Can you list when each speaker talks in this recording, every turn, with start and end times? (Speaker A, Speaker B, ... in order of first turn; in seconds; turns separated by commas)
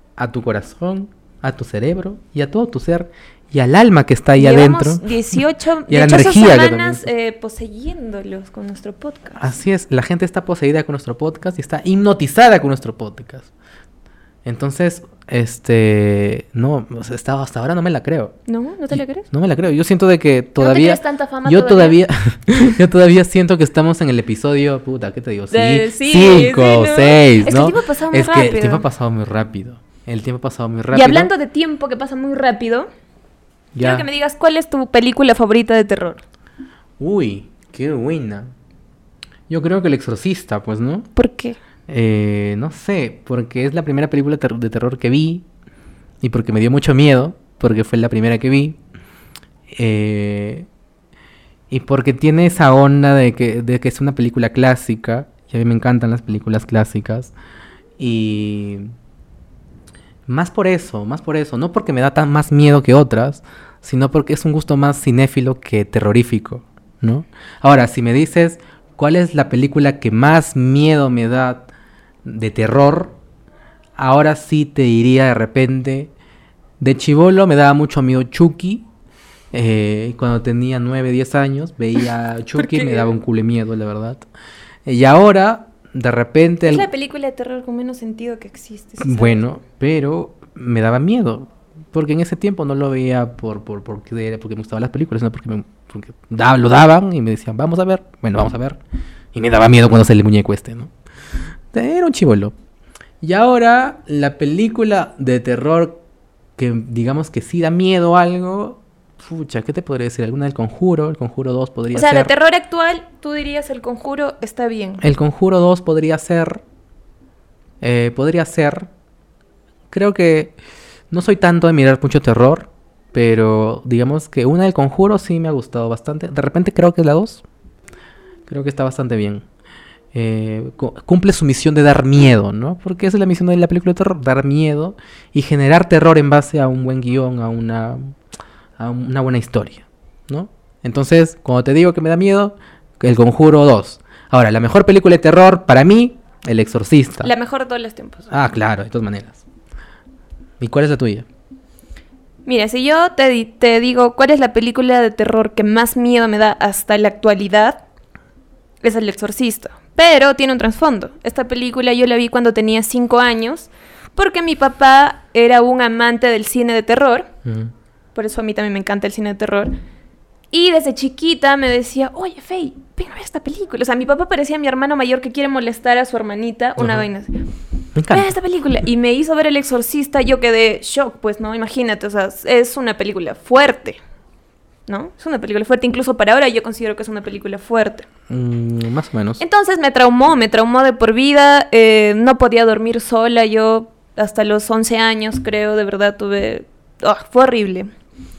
Speaker A: 0.2-5.1, Speaker B: 4.4-9.4, Speaker A: 5.9-7.1, Speaker A: 9.4-13.5, Speaker A: 14.4-18.4, Speaker B: 18.5-19.3, Speaker A: 18.9-31.3, Speaker B: 20.6-22.0, Speaker B: 25.5-28.9, Speaker B: 30.9-32.9, Speaker A: 33.7-34.1, Speaker B: 33.8-36.2, Speaker A: 37.0-38.5, Speaker A: 39.5-41.1, Speaker B: 41.2-41.6, Speaker A: 41.9-45.5, Speaker A: 46.2-48.8, Speaker A: 49.7-50.7, Speaker A: 51.7-57.3, Speaker A: 58.0-58.9, Speaker A: 60.3-71.7, Speaker A: 72.2-73.1, Speaker A: 74.0-76.1, Speaker A: 76.8-78.9, Speaker A: 79.5-84.3, Speaker B: 82.6-83.1, Speaker A: 84.8-86.9, Speaker B: 86.7-89.4, Speaker A: 89.0-98.8, Speaker A: 99.3-100.9, Speaker A: 101.7-102.5, Speaker A: 103.2-106.0, Speaker A: 106.6-112.3, Speaker B: 111.9-115.0, Speaker A: 115.0-116.6, Speaker A: 117.8-118.9, Speaker A: 119.9-120.5, Speaker A: 121.1-127.4, Speaker A: 128.5-129.4, Speaker A: 130.1-138.1, Speaker A: 138.8-147.3, Speaker B: 147.2-148.3, Speaker A: 148.3-149.4, Speaker A: 150.6-151.3, Speaker B: 152.5-157.8, Speaker B: 158.8-167.3, Speaker A: 167.5-167.7, Speaker B: 168.1-169.8, Speaker B: 170.5-177.4, Speaker A: 176.8-177.1, Speaker A: 177.9-178.3, Speaker B: 178.1-184.0, Speaker B: 184.9-188.1, Speaker A: 188.3-189.4, Speaker B: 189.4-197.9